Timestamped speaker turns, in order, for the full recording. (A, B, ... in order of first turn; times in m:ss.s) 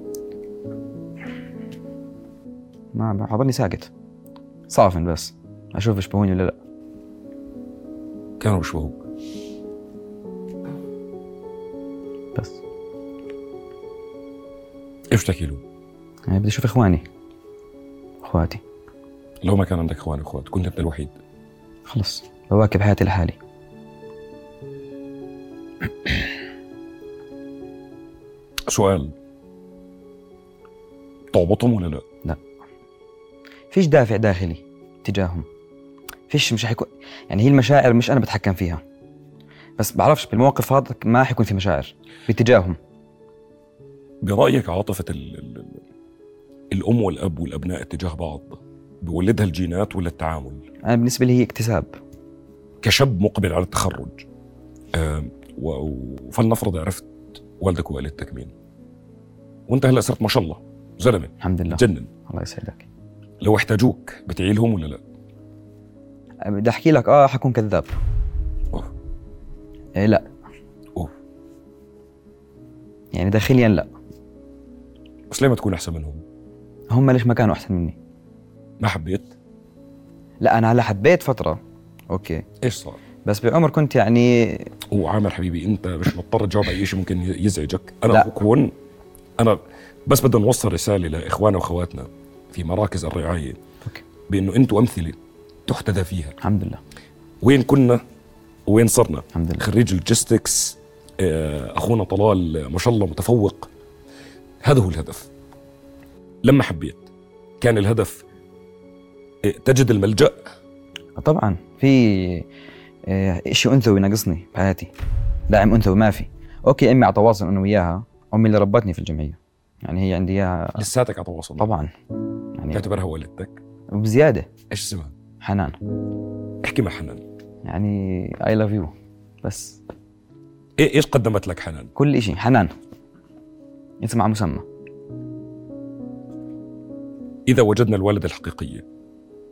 0:02.9-0:03.9 A
0:04.7-0:06.6 A
0:08.4-0:09.0 B
0:15.1-0:15.6 B
0:16.3-0:17.0 A
0:18.2-0:18.6 A
0:19.4-0:21.1 B
0:21.9-0:23.4 A
0:28.7-0:29.1 B
0:31.3-0:32.0 B
0:33.7-0:35.4 A
0:36.3-0:38.8 A
0:39.8-0:42.8 A
0:44.2-0:45.8 B
0:46.7-0:50.6 B
0:50.8-0:52.0 A
0:52.8-0:54.2 B
0:54.9-0:58.5 B
0:59.7-1:02.1 B
1:01.4-1:02.8 A
1:03.4-1:05.0 B
1:06.4-1:08.0 A
1:10.0-1:10.3 A
1:13.1-1:13.9 A
1:15.3-1:16.2 B
1:16.9-1:18.0 A
1:18.8-1:19.3 B
1:20.4-1:21.6 A
1:22.1-1:22.4 A
1:22.6-1:23.0 B
1:23.2-1:24.7 A
1:24.9-1:28.7 B
1:29.4-1:33.6 B
1:34.3-1:36.4 B
1:36.4-1:36.8 A
1:37.4-1:38.0 B
1:38.7-1:43.7 B
1:39.3-1:39.6 A
1:44.6-1:45.3 B
1:46.4-1:47.0 B
1:47.6-1:48.2 B
1:49.4-1:50.5 B
1:51.2-1:52.5 A
1:53.1-1:54.9 A
1:55.5-2:00.8 A
2:00.8-2:01.7 B
2:01.6-2:01.9 A
2:02.6-2:02.8 A
2:02.7-2:03.6 B
2:03.9-2:04.5 A
2:04.7-2:05.1 B
2:05.4-2:05.8 A
2:06.6-2:07.2 B
2:07.6-2:09.8 A
2:10.8-2:11.9 B
2:12.0-2:12.7 A
2:14.0-2:14.6 A
2:17.5-2:18.8 B